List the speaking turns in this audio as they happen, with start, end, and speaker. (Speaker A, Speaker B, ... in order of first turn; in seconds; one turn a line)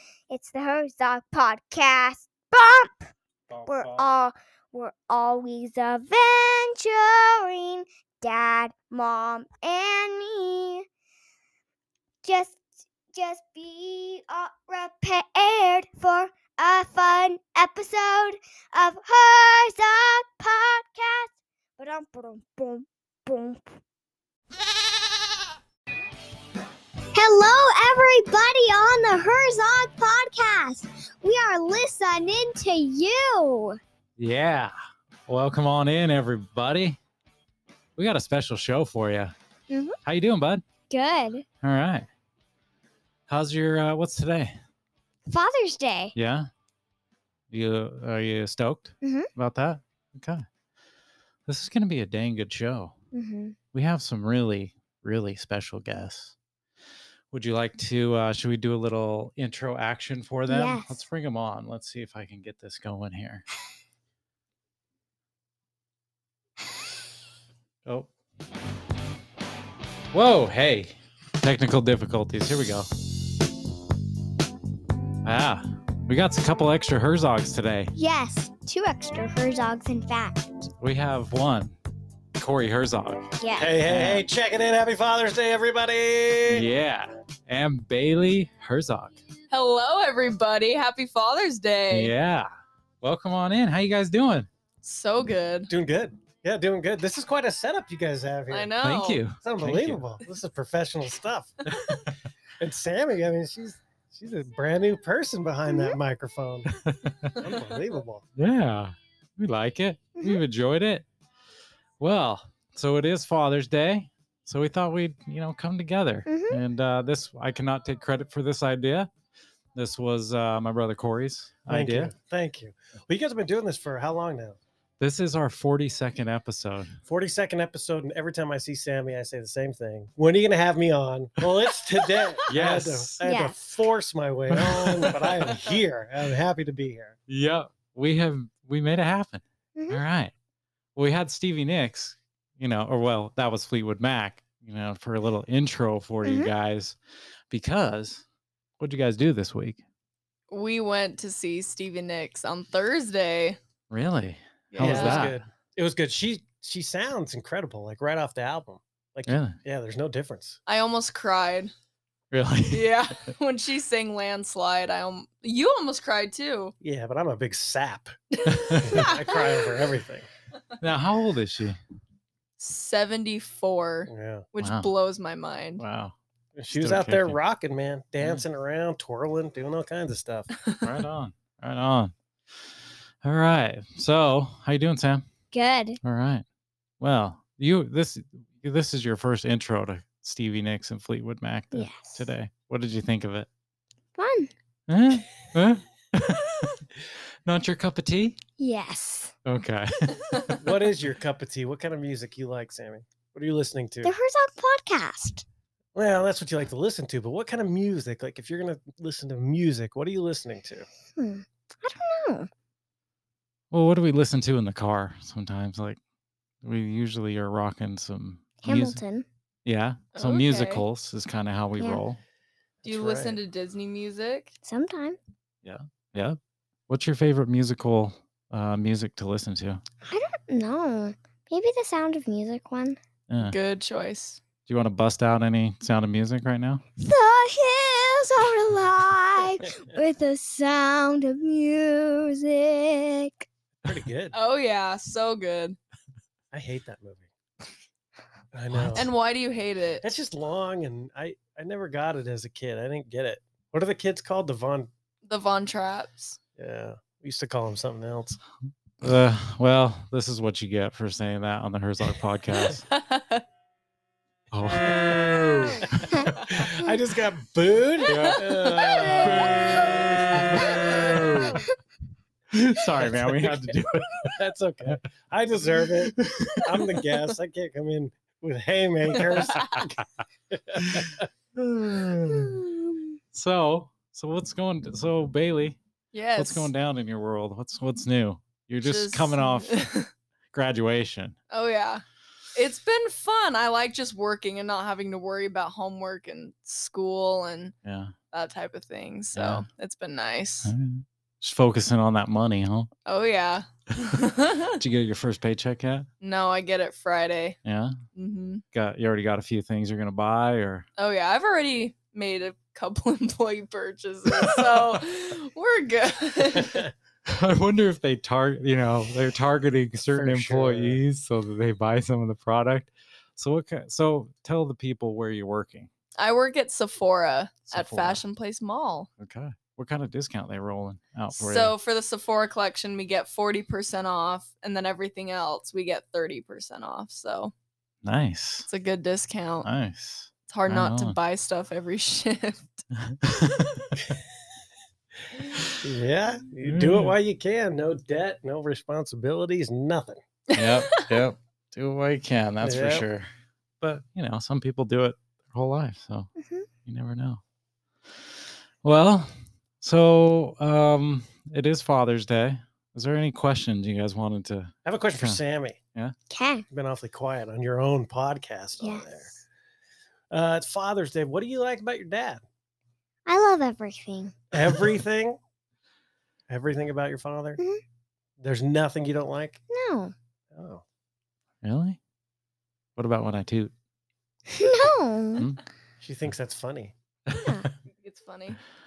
Speaker A: 0.3-3.1
Speaker B: 3.5-4.0
Speaker A: 3.7-10.8
Speaker A: 12.2-23.8
Speaker A: 27.1-33.8
Speaker B: 34.2-34.7
Speaker B: 35.3-37.0
Speaker B: 38.0-39.3
Speaker A: 39.7-40.0
Speaker B: 40.1-40.6
Speaker A: 40.9-41.5
Speaker B: 41.6-42.1
Speaker B: 43.3-44.6
Speaker A: 45.3-46.1
Speaker B: 46.1-46.5
Speaker B: 47.5-50.5
Speaker A: 49.0-49.3
Speaker B: 51.5-53.0
Speaker A: 53.1-53.6
Speaker B: 53.7-56.3
Speaker B: 57.3-63.5
Speaker A: 60.5-61.1
Speaker B: 70.1-72.9
Speaker B: 75.2-77.9
Speaker A: 78.0-80.7
Speaker B: 80.8-81.8
Speaker B: 82.4-83.3
Speaker A: 83.4-83.8
Speaker C: 83.5-86.7
Speaker B: 83.9-84.2
Speaker B: 86.5-89.2
Speaker D: 89.5-92.1
Speaker B: 91.9-92.5
Speaker B: 93.0-94.5
Speaker D: 94.8-95.7
Speaker C: 95.7-98.7
Speaker D: 98.5-99.2
Speaker B: 98.8-100.0
Speaker C: 99.4-101.8
Speaker C: 102.6-106.7
Speaker A: 105.7-106.0
Speaker B: 106.8-107.4
Speaker C: 107.4-108.3
Speaker B: 108.4-111.1
Speaker B: 112.0-119.1
Speaker A: 116.3-116.6
Speaker B: 119.8-122.2
Speaker C: 121.7-124.6
Speaker B: 125.0-127.0
Speaker C: 127.0-137.2
Speaker B: 132.5-133.2
Speaker A: 133.2-133.6
Speaker B: 134.5-135.6
Speaker B: 137.3-140.3
Speaker A: 139.8-140.0
Speaker B: 141.0-147.0
Speaker A: 146.2-146.5
Speaker B: 147.5-148.2
Speaker B: 148.8-149.8
Speaker D: 150.5-153.6
Speaker B: 153.9-155.4
Speaker D: 154.7-155.3
Speaker C: 154.8-160.6
Speaker B: 159.3-159.6
Speaker D: 160.7-161.7
Speaker B: 162.3-162.9
Speaker D: 162.7-166.7
Speaker C: 166.8-168.1
Speaker D: 168.4-169.5
Speaker B: 168.5-169.1
Speaker C: 168.8-170.3
Speaker B: 170.8-171.8
Speaker D: 172.6-175.8
Speaker C: 174.1-174.5
Speaker B: 174.6-174.9
Speaker B: 175.8-176.2
Speaker C: 176.6-180.5
Speaker B: 176.7-177.4
Speaker B: 180.8-182.1
Speaker B: 183.2-185.3
Speaker A: 185.5-186.0
Speaker B: 186.0-186.4
Speaker B: 187.0-193.5
Speaker A: 191.7-192.3
Speaker A: 194.2-194.5
Speaker B: 194.9-196.9
Speaker B: 197.4-198.4
Speaker A: 198.6-199.3
Speaker B: 199.5-200.6
Speaker C: 200.6-204.1
Speaker A: 204.0-205.4
Speaker C: 205.9-210.9
Speaker A: 211.2-212.5
Speaker B: 213.7-216.0
Speaker B: 216.6-219.0
Speaker A: 218.6-219.3
Speaker B: 219.7-222.2
Speaker D: 220.2-220.8
Speaker C: 222.8-223.4
Speaker D: 222.8-224.5
Speaker A: 224.6-225.2
Speaker B: 225.6-226.4
Speaker B: 226.9-229.8
Speaker A: 230.1-233.0
Speaker B: 233.3-233.6
Speaker D: 233.4-234.4
Speaker B: 234.7-236.8
Speaker A: 237.0-243.5
Speaker C: 243.8-244.3
Speaker D: 244.3-245.8
Speaker C: 246.5-247.3
Speaker C: 248.5-249.1
Speaker B: 248.7-249.0
Speaker D: 249.0-250.1
Speaker C: 250.0-254.9
Speaker D: 255.2-256.4
Speaker C: 256.6-258.4
Speaker B: 259.0-262.9
Speaker D: 262.9-263.4
Speaker B: 264.5-266.7
Speaker C: 265.8-271.6
Speaker B: 268.1-271.6
Speaker D: 268.2-269.4
Speaker B: 272.5-274.4
Speaker C: 273.0-281.3
Speaker B: 276.1-277.0
Speaker B: 279.3-279.8
Speaker D: 279.3-279.8
Speaker B: 280.8-285.8
Speaker D: 286.1-286.7
Speaker B: 286.4-289.8
Speaker D: 288.8-290.1
Speaker B: 290.5-291.4
Speaker D: 291.5-292.0
Speaker D: 292.6-297.7
Speaker B: 297.8-298.1
Speaker D: 298.3-300.7
Speaker B: 299.4-299.6
Speaker B: 300.6-302.9
Speaker D: 303.1-304.8
Speaker B: 304.8-306.1
Speaker D: 306.2-307.6
Speaker B: 307.6-308.0
Speaker D: 308.1-308.6
Speaker B: 308.7-310.9
Speaker D: 311.0-316.9
Speaker B: 317.3-325.9
Speaker C: 320.1-321.0
Speaker D: 326.2-329.1
Speaker B: 327.7-328.2
Speaker B: 329.2-331.7
Speaker D: 331.3-337.5
Speaker B: 338.0-338.7
Speaker D: 338.6-339.7
Speaker B: 339.6-341.2
Speaker D: 340.5-342.8
Speaker B: 343.0-344.0
Speaker C: 345.8-350.2
Speaker B: 346.6-347.1
Speaker D: 350.5-351.1
Speaker B: 350.6-353.3
Speaker C: 352.6-353.1
Speaker B: 353.8-356.3
Speaker A: 356.4-356.7
Speaker B: 356.9-357.4
Speaker B: 358.8-365.4
Speaker C: 364.9-365.8
Speaker A: 366.3-366.6
Speaker C: 366.7-369.4
Speaker A: 368.8-369.3
Speaker C: 370.3-372.4
Speaker A: 373.3-374.3
Speaker C: 374.5-375.4
Speaker C: 376.5-377.6
Speaker C: 378.4-379.6
Speaker A: 379.7-380.1
Speaker C: 380.5-380.8
Speaker B: 381.6-382.0
Speaker B: 383.0-383.7
Speaker A: 384.5-385.5
Speaker C: 386.0-386.9
Speaker B: 387.3-387.7
Speaker A: 387.4-387.7
Speaker D: 388.0-388.6